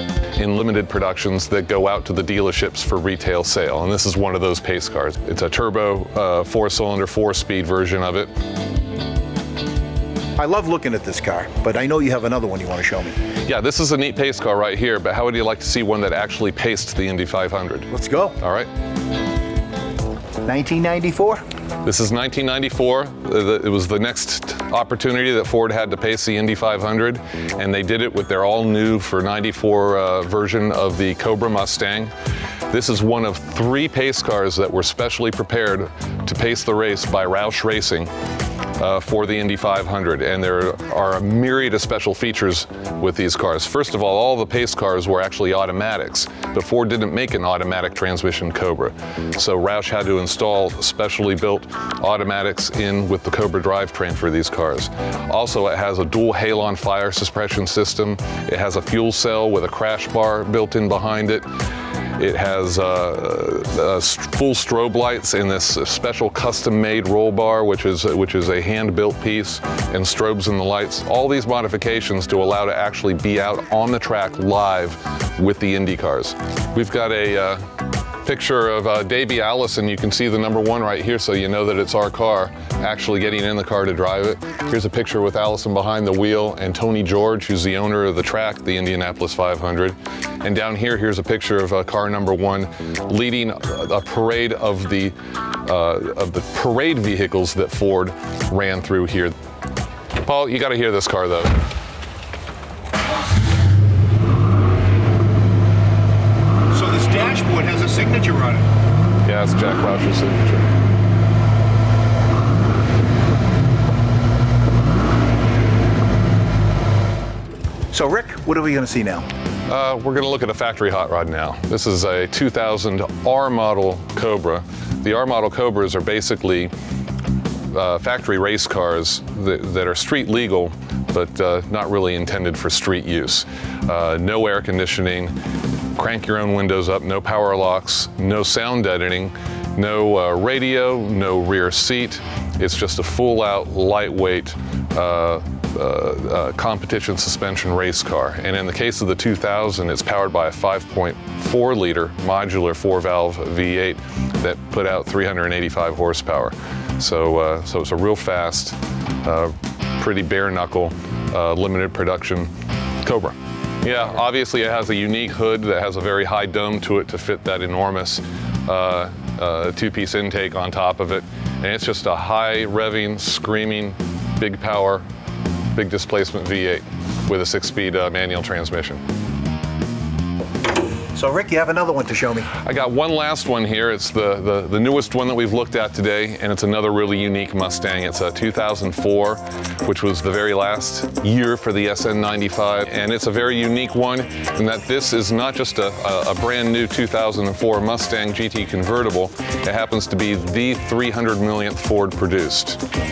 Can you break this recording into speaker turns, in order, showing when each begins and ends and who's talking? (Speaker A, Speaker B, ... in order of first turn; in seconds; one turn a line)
Speaker A: 0.3-8.3
Speaker B: 10.4-13.2
Speaker A: 13.4-17.9
Speaker B: 17.9-18.4
Speaker A: 18.4-18.7
Speaker B: 20.4-21.4
Speaker A: 21.8-32.1
Speaker A: 32.7-38.1
Speaker A: 38.8-61.5
Speaker A: 62.2-77.7
Speaker A: 78.2-99.3
Speaker A: 100.2-101.5
Speaker B: 106.7-108.7
Speaker A: 109.2-110.7
Speaker B: 117.9-119.3
Speaker A: 119.7-126.7
Speaker A: 127.7-135.3
Speaker A: 135.9-162.5
Speaker A: 163.0-175.1
Speaker A: 175.7-179.0
Speaker B: 181.1-182.5
Speaker A: 182.6-202.8